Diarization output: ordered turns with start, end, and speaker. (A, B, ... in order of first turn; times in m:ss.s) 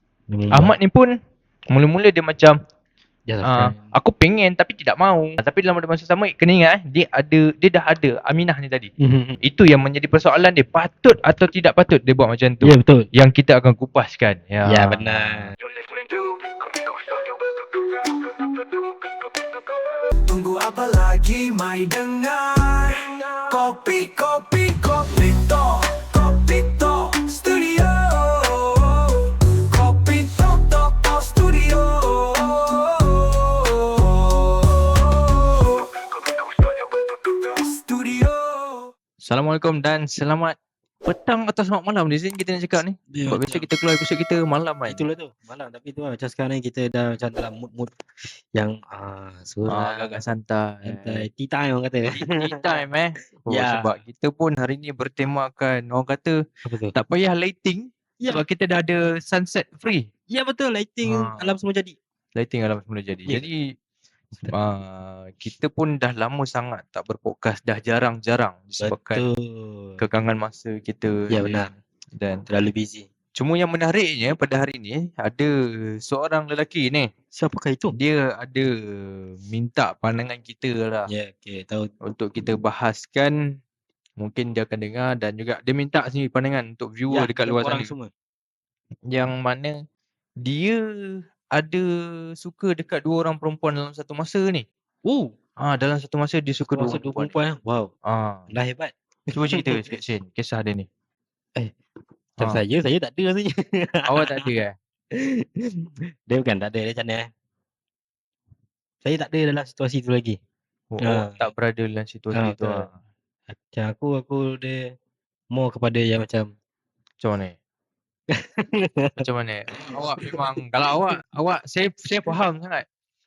0:00.3-0:00.7 A
0:00.5-0:01.1 B
0:01.7-0:02.6 B
0:03.3-0:03.8 A
0:03.4-0:08.9 B
0:09.0-0:09.4 A
0:09.4-0:15.5 B
0:12.6-0:13.1 A
0:14.7-0:15.5 A
0:15.7-0:19.7 C
0:20.2-0:38.9 C
0:39.2-0:45.0 B
0:43.1-0:43.6 A
0:44.9-0:50.2 A
0:49.7-0:51.2 B
0:50.8-0:52.8 A
0:52.1-0:56.4 B
0:53.5-0:53.9 A
0:56.6-0:56.9 A
0:56.9-1:00.1 B
1:00.3-1:01.9 A
1:01.0-1:01.6 B
1:02.4-1:03.6 B
1:04.5-1:09.2 B
1:08.8-1:10.0 A
1:10.0-1:11.6 B
1:11.3-1:11.7 A
1:12.2-1:12.4 B
1:12.5-1:13.1 A
1:13.4-1:15.5 B
1:16.0-1:17.1 B
1:17.3-1:17.9 A
1:17.9-1:21.1 B
1:21.1-1:21.9 A
1:22.0-1:23.3 B
1:24.2-1:27.9 B
1:27.1-1:28.1 A
1:29.1-1:29.8 B
1:30.4-1:31.8 B
1:32.4-1:34.6 B
1:35.6-1:37.4 B
1:36.7-1:37.9 A
1:38.1-1:38.5 B
1:38.5-1:39.8 A
1:39.3-1:40.9 B
1:42.4-1:44.4 A
1:44.1-1:44.7 B
1:45.1-1:47.3 A
1:49.0-1:50.4 A
1:50.9-1:53.0 B
1:51.0-1:51.4 A
1:52.3-1:52.9 A
1:53.5-1:54.8 A
1:55.5-1:56.5 A
1:57.2-1:57.6 B
1:58.3-1:59.2 A
1:59.2-2:02.9 B
1:59.9-2:01.0 A